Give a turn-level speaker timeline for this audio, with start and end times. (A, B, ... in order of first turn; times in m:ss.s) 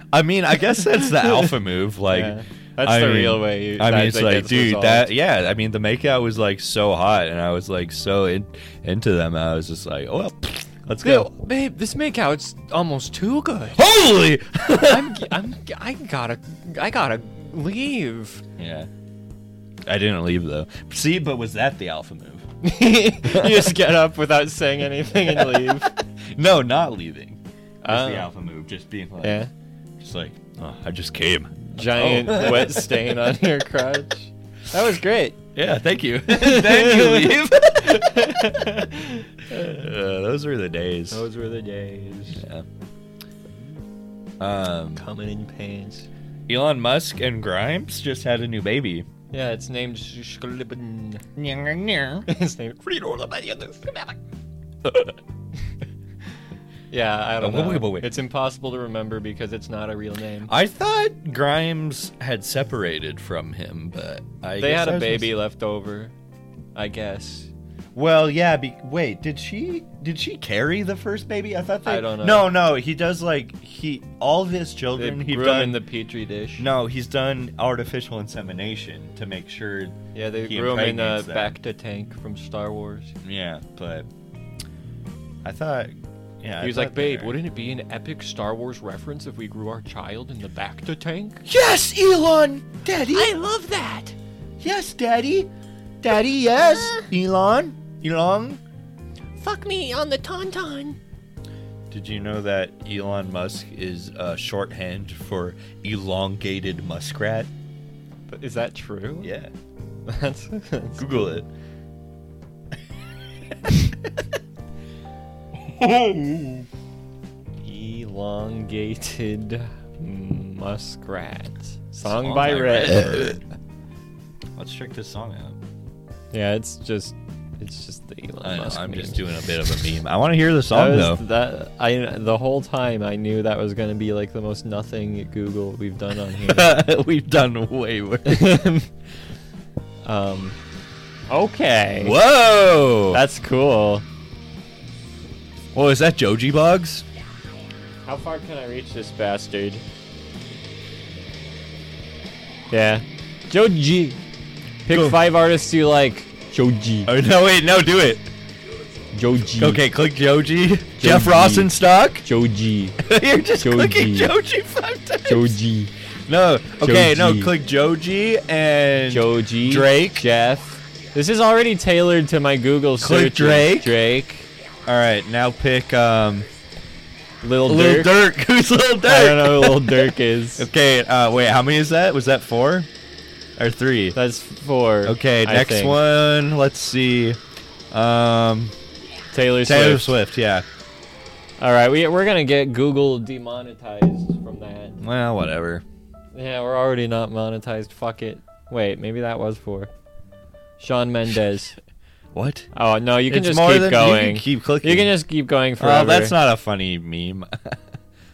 0:00.1-0:11.3 A
0:00.7-0:01.5 B
0:02.1-0:05.1 B
0:11.0-0:13.8 B
0:13.8-0:15.2 A
0:14.8-0:18.4 B
0:18.6-0:18.9 A
0:19.9-0:22.4 A
0:22.6-0:25.9 B
0:23.2-0:23.7 A
0:25.3-0:29.5 A
0:27.8-0:28.3 B
0:29.2-0:29.5 B
0:30.0-0:33.1 A
0:31.6-0:35.4 B
0:35.6-0:38.3 A
0:36.3-0:39.9 B
0:39.5-0:41.2 A
0:41.1-0:42.4 B
0:42.4-0:42.6 A
0:44.4-0:45.0 A
0:45.0-0:46.1 B
0:46.5-0:49.1 A
0:49.3-0:51.2 B
0:51.4-0:52.3 A
0:52.3-0:54.2 B
0:54.8-0:55.2 A
0:56.9-1:00.5 B
0:57.4-0:58.1 A
1:00.5-1:05.3 A
1:04.6-1:06.1 B
1:06.8-1:07.5 B
1:08.0-1:15.8 A
1:11.9-1:12.5 B
1:15.0-1:16.7 B
1:16.6-1:21.6 A
1:20.1-1:23.2 B
1:23.2-1:24.1 A
1:25.4-1:27.4 A
1:26.6-1:31.4 B
1:31.4-1:33.3 A
1:33.1-1:34.2 B
1:34.6-1:35.5 A
1:36.0-1:38.6 A
1:36.8-1:37.1 B
1:39.4-1:41.0 B
1:41.9-1:47.5 A
1:48.3-1:49.4 B
1:49.2-1:49.5 A
1:50.1-1:51.4 B
1:51.0-1:51.5 A
1:55.7-1:56.7 A
1:57.6-2:03.3 B
2:02.0-2:03.4 A
2:04.6-2:05.6 A
2:06.3-2:09.7 B
2:08.4-2:11.2 A
2:10.7-2:16.8 B
2:16.4-2:18.6 A
2:18.3-2:18.9 B
2:20.0-2:20.6 B
2:21.3-2:22.2 B
2:22.0-2:23.2 A
2:23.1-2:24.0 B
2:25.7-2:27.0 A
2:28.1-2:29.8 B
2:32.7-2:34.2 B
2:34.8-2:37.1 B
2:34.9-2:35.2 A
2:37.1-2:38.3 A
2:39.1-2:39.8 B
2:39.6-2:42.3 A
2:41.0-2:43.0 B
2:43.0-2:45.6 A
2:43.6-2:44.3 B
2:45.3-2:45.9 B
2:46.3-2:50.3 A
2:46.8-2:47.6 B
2:49.1-2:54.5 B
2:53.0-2:53.9 A
2:54.9-2:56.5 A
2:57.4-2:58.2 B
2:57.6-3:02.9 A
2:59.0-3:00.7 B
3:03.6-3:04.2 A
3:04.2-3:06.0 B
3:05.0-3:07.4 A
3:07.9-3:08.7 A
3:09.3-3:10.1 B
3:09.6-3:10.7 A
3:11.6-3:15.0 B
3:15.0-3:15.8 A
3:16.4-3:19.9 B
3:20.8-3:21.8 B
3:22.3-3:22.7 A
3:22.7-3:26.4 B
3:23.3-3:25.2 A
3:25.8-3:27.8 A